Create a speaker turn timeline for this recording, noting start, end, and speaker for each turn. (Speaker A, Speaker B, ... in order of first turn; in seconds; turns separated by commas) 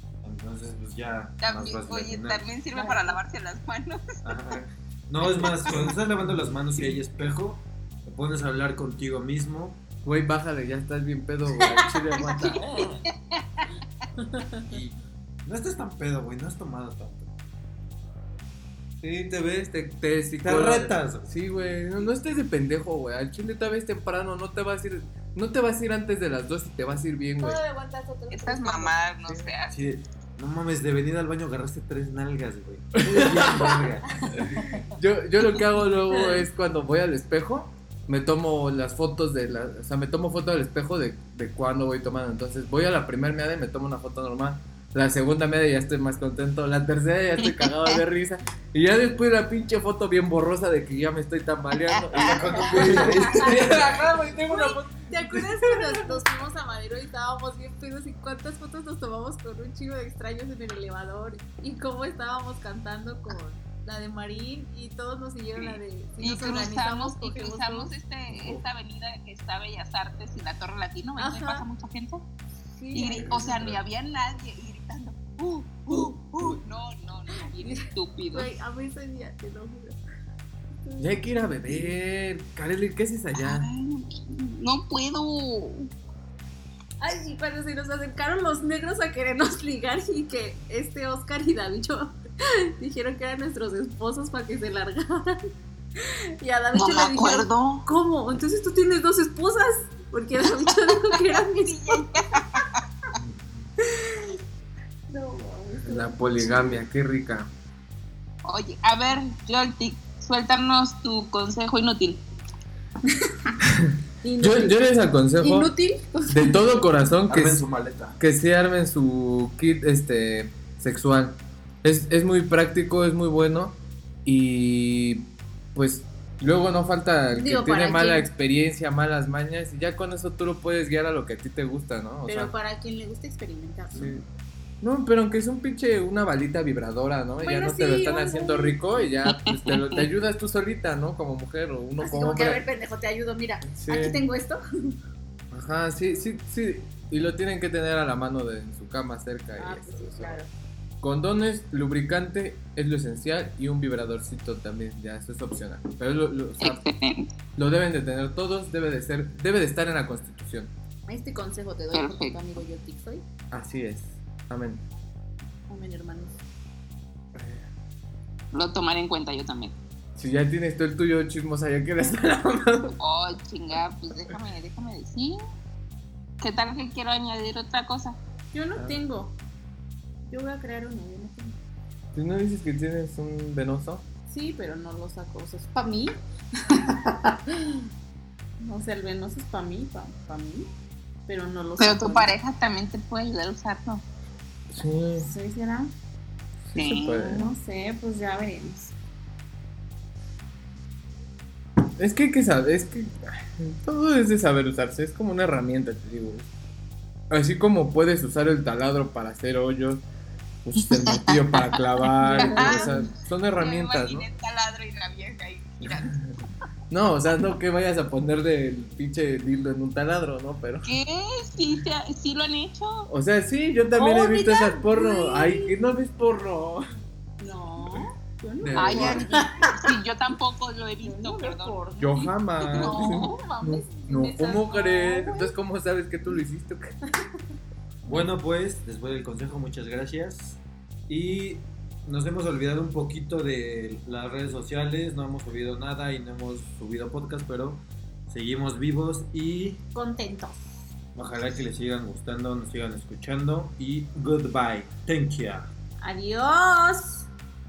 Speaker A: 0.2-2.5, Speaker B: 1.4-4.1, Speaker C: 2.7-3.2, Speaker A: 4.2-9.8, Speaker D: 10.0-13.0, Speaker C: 11.6-12.9, Speaker B: 12.8-13.7, Speaker C: 14.2-14.8, Speaker A: 14.7-17.3, Speaker D: 19.0-27.6, Speaker A: 20.4-21.3, Speaker C: 27.4-29.0, Speaker B: 28.3-29.8, Speaker D: 29.3-29.5, Speaker A: 29.7-34.5, Speaker D: 33.0-33.8, Speaker C: 34.2-34.9, Speaker D: 34.3-56.0, Speaker B: 47.5-48.0, Speaker B: 51.9-53.1, Speaker A: 52.1-54.1, Speaker C: 52.6-67.9, Speaker B: 65.6-72.3, Speaker C: 71.2-71.7, Speaker C: 72.7-73.4, Speaker B: 72.9-78.5, Speaker D: 73.1-73.8, Speaker C: 77.4-80.0, Speaker C: 80.8-81.9, Speaker D: 81.0-83.7, Speaker B: 83.3-85.9, Speaker C: 87.0-92.2, Speaker C: 92.8-95.4, Speaker C: 96.0-102.6, Speaker B: 96.7-97.8, Speaker B: 100.9-102.7, Speaker D: 103.2-103.7, Speaker C: 103.8-104.4, Speaker C: 105.1-106.8, Speaker D: 105.8-107.5, Speaker B: 108.4-112.2, Speaker D: 113.7-115.7, Speaker C: 114.2-114.8, Speaker C: 115.4-116.7, Speaker D: 116.3-117.6, Speaker A: 117.3-118.2, Speaker D: 118.2-132.5, Speaker C: 127.3-128.3, Speaker C: 132.3-134.2, Speaker D: 133.9-134.2, Speaker D: 134.8-142.6, Speaker C: 137.4-139.1, Speaker B: 139.3-140.0, Speaker C: 142.0-144.9, Speaker D: 143.6-144.2, Speaker D: 145.5-150.4, Speaker C: 149.6-150.5, Speaker D: 151.0-156.8, Speaker B: 156.6-157.3, Speaker D: 157.6-160.7, Speaker C: 161.1-163.2, Speaker B: 161.9-162.4, Speaker D: 163.5-164.8, Speaker C: 165.7-166.4, Speaker D: 167.3-167.7, Speaker B: 168.5-169.7, Speaker D: 170.2-172.9, Speaker B: 173.0-175.4, Speaker B: 176.4-178.2, Speaker C: 178.5-179.4, Speaker D: 178.8-179.0, Speaker C: 180.3-181.6, Speaker D: 182.2-184.0, Speaker C: 184.3-187.8, Speaker C: 188.6-190.7, Speaker C: 191.3-192.3, Speaker B: 191.8-194.0, Speaker D: 194.7-195.3, Speaker C: 195.2-195.9, Speaker D: 196.7-197.5, Speaker B: 196.8-197.4, Speaker C: 197.2-198.9, Speaker D: 202.0-206.5, Speaker D: 207.3-210.0, Speaker D: 210.7-214.3, Speaker B: 210.9-211.8, Speaker C: 212.2-213.1, Speaker B: 212.3-212.9, Speaker B: 213.6-216.2, Speaker D: 215.9-216.3, Speaker D: 216.9-221.0, Speaker B: 220.8-223.1, Speaker D: 223.1-226.9, Speaker C: 223.9-225.8, Speaker C: 227.4-229.9, Speaker D: 228.6-229.5, Speaker B: 228.8-231.8, Speaker C: 231.0-235.5, Speaker D: 232.0-237.0, Speaker B: 232.6-233.4, Speaker A: 238.1-249.8, Speaker C: 249.9-250.8, Speaker A: 251.2-255.7, Speaker C: 256.0-257.3